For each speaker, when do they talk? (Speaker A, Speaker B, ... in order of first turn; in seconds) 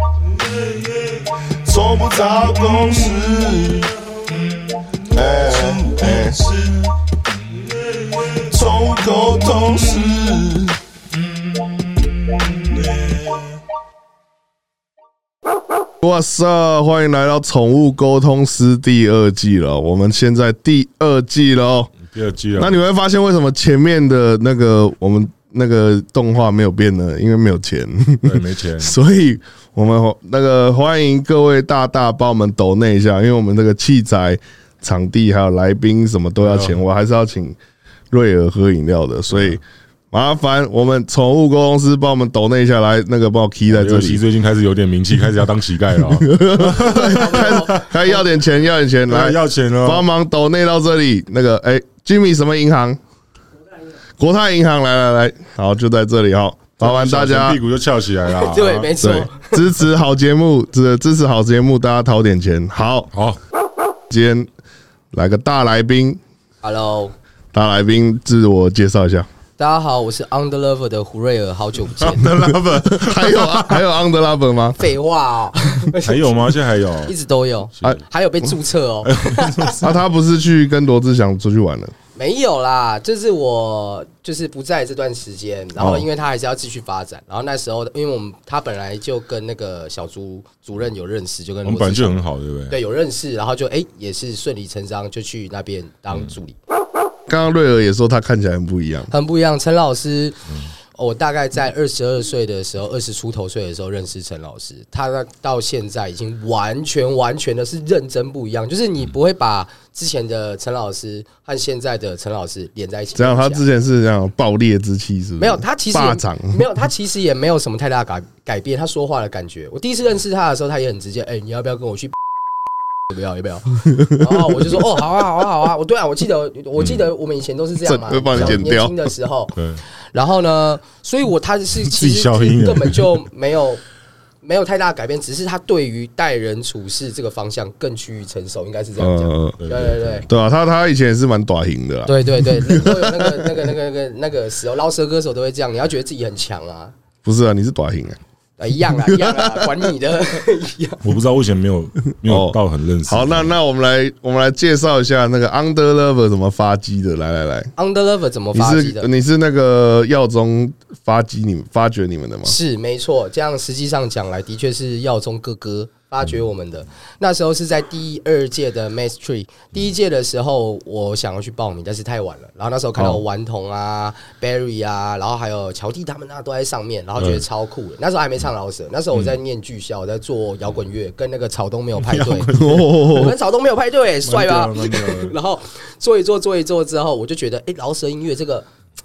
Speaker A: 0.3-6.9, 7.5-10.8, 12.7-13.3
Speaker B: 5.4-6.3, 16.0-21.9, 22.6-37.6, 38.1-44.2, 46.1-53.0, 54.2-57.6, 59.0-63.1, 64.1-64.5, 65.1-66.2, 67.5-69.3, 72.2-74.8, 79.8-81.9, 85.8-86.1, 97.3-99.1, 113.2-116.6, 127.8-129.0, 139.0-139.6, 140.3-143.7, 147.2-148.2, 149.1-149.8, 152.2-157.7, 158.5-162.6, 173.0-173.2, 182.5-183.4
Speaker C: 22.0-22.8, 28.2-29.0, 36.4-36.8, 39.3-39.6, 43.7-47.9, 49.1-50.1, 56.8-59.2, 63.1-63.4, 72.0-73.8, 76.0-77.1, 79.0-79.9, 91.7-92.8, 126.8-127.1, 128.3-128.6, 129.6-129.8, 131.8-133.2, 139.6-140.3, 151.0-153.5, 182.0-182.7, 184.2-185.3
Speaker D: 46.7-48.2, 58.3-59.6, 66.6-67.1, 69.6-72.3, 74.8-76.5, 77.1-79.9, 82.2-96.6, 99.1-100.4, 101.0-113.6, 115.4-122.2, 123.1-129.6, 130.1-133.8, 134.4-140.3, 142.1-146.9, 148.6-151.0, 157.8-159.1, 162.4-188.7